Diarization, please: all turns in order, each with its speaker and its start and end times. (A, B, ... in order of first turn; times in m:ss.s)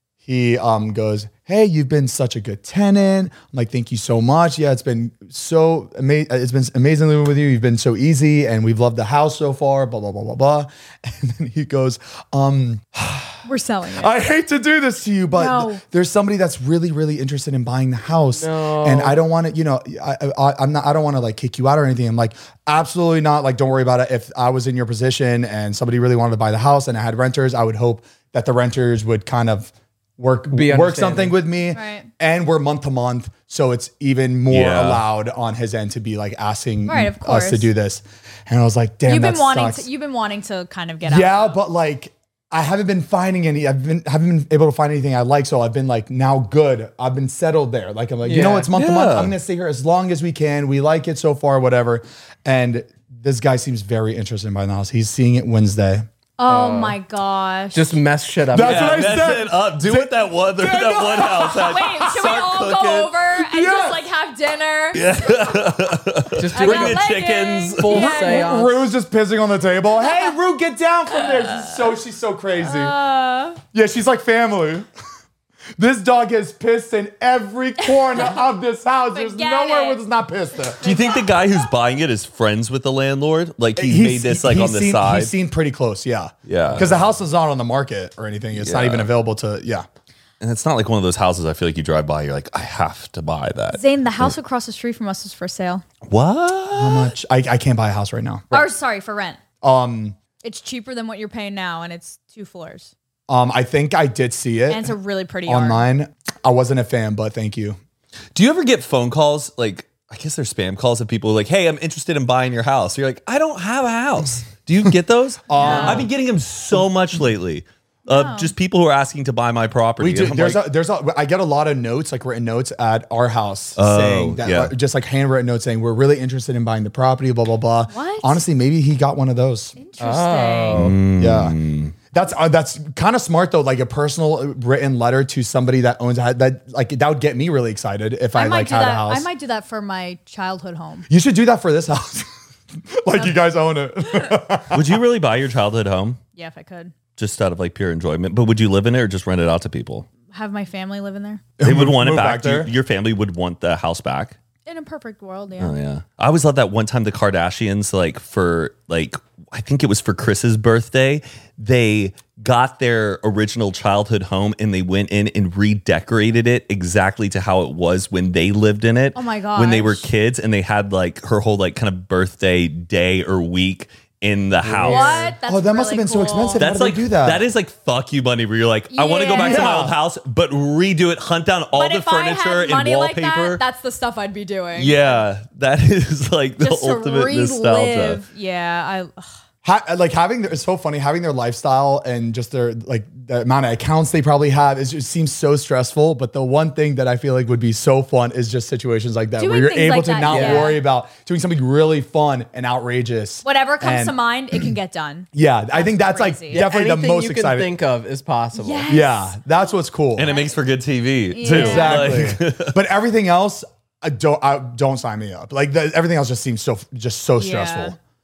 0:00.2-0:39.9 A
0:13.4-0:14.1 B
0:15.3-0:15.8 B
0:18.3-0:19.2 C
0:30.5-0:31.4 C
0:31.7-0:32.1 B
0:34.5-0:35.0 D
0:36.9-0:37.7 B
0:39.1-0:41.6 B
0:41.0-0:56.1 A
0:48.2-0:48.7 C
0:48.7-0:49.3 D
0:56.4-0:58.0 B
0:56.5-0:57.0 C
0:57.7-0:59.1 C
0:58.5-1:02.0 A
0:58.6-1:03.1 D
1:01.5-1:05.5 B
1:03.4-1:04.0 A
1:04.9-1:08.0 D
1:06.4-1:07.0 C
1:06.5-1:08.5 B
1:07.8-1:08.9 C
1:07.9-1:13.0 A
1:12.6-1:13.6 B
1:13.7-1:14.9 A
1:15.8-1:20.9 A
1:18.1-1:18.4 B
1:19.1-1:20.0 B
1:20.8-1:25.3 D
1:20.8-1:21.5 B
1:23.8-1:29.8 A
1:26.4-1:27.0 D
1:28.5-1:29.1 D
1:30.4-1:34.3 D
1:33.7-1:35.8 B
1:36.1-1:37.1 D
1:36.7-1:38.5 A
1:38.5-1:39.4 B
1:39.6-1:40.2 A
1:40.4-1:42.9 B
1:43.3-1:47.8 A
1:44.7-1:45.8 B
1:48.3-2:00.6 D
1:55.5-1:56.1 A
1:55.6-1:56.1 B
1:58.1-1:58.5 B
2:00.0-2:09.8 A
2:03.8-2:04.7 D
2:07.9-2:08.4 B
2:09.8-2:10.8 B
2:10.0-2:10.9 C
2:10.7-2:11.9 D
2:10.9-2:11.6 A
2:12.1-2:19.3 A
2:18.3-2:21.1 B
2:21.1-2:22.3 A
2:22.9-2:25.0 A
2:23.1-2:23.4 B
2:24.7-2:26.2 D
2:26.4-2:26.9 B
2:27.2-2:30.1 D
2:30.3-2:31.4 B
2:31.6-2:32.7 A
2:31.6-2:34.4 D
2:34.7-2:35.8 B
2:35.6-2:55.3 D
2:49.1-2:50.0 B
2:54.6-2:57.4 A
2:54.8-2:55.4 C
2:54.8-2:56.6 B
2:56.6-3:03.6 D
2:58.9-2:59.9 B
2:59.3-2:59.9 A
3:01.7-3:05.2 B
3:04.8-3:08.2 D
3:06.6-3:09.3 B
3:09.6-3:24.7 A
3:19.4-3:20.8 B
3:20.2-3:20.8 C
3:23.4-3:26.7 B
3:25.3-3:27.7 A
3:26.5-3:28.9 C
3:28.5-3:29.4 B
3:28.9-3:30.3 A
3:30.2-3:32.8 D
3:31.3-3:32.2 B
3:31.4-3:38.0 A
3:37.4-3:38.0 B